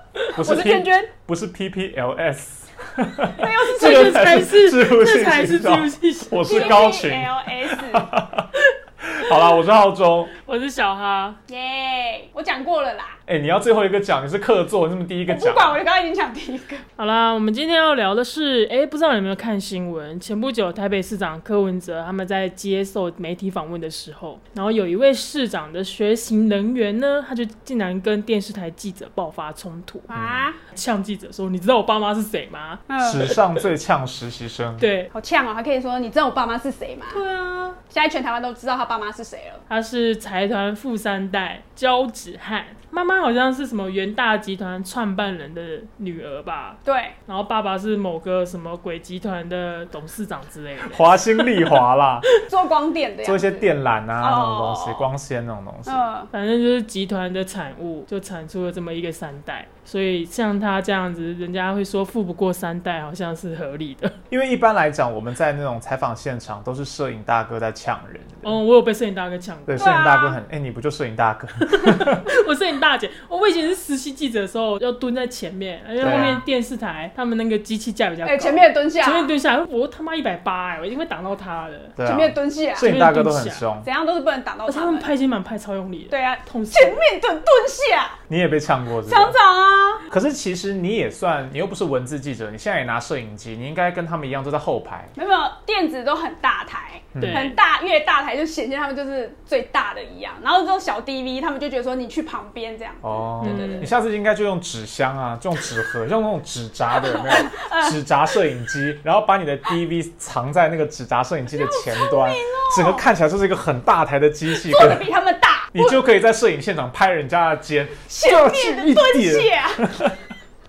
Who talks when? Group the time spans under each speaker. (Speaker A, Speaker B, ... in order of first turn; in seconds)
Speaker A: 0.3-8.5, 9.0-10.3, 13.3-15.8, 30.1-30.5, 33.0-34.9, 50.8-52.3, 53.2-56.1, 64.3-68.6, 69.7-72.3, 76.0-76.4, 82.0-83.9, 88.3-89.4, 90.1-95.1, 97.1-97.5, 103.0-115.1, 115.7-120.2
Speaker B: 0.4-1.1, 3.3-4.3, 6.5-8.1, 11.5-13.2, 15.3-16.9, 30.1-30.6, 32.9-33.4, 35.1-37.2, 37.9-39.6, 46.9-47.2, 52.5-53.7, 54.2-55.1, 55.9-56.3, 69.8-70.4, 76.0-76.4, 78.2-79.3, 82.0-82.9, 83.8-85.1, 86.1-88.2, 89.1-90.1, 95.2-103.9, 106.9-108.0, 111.6-113.1, 114.5-116.0, 118.1-120.1
Speaker C: 3.7-6.9, 10.4-11.4, 17.0-30.1, 30.7-32.8, 34.8-35.1, 37.1-37.8, 39.7-51.8, 56.3-64.2, 68.4-69.8, 71.7-82.0, 82.8-83.7, 84.7-87.0, 97.2-97.6, 103.4-103.9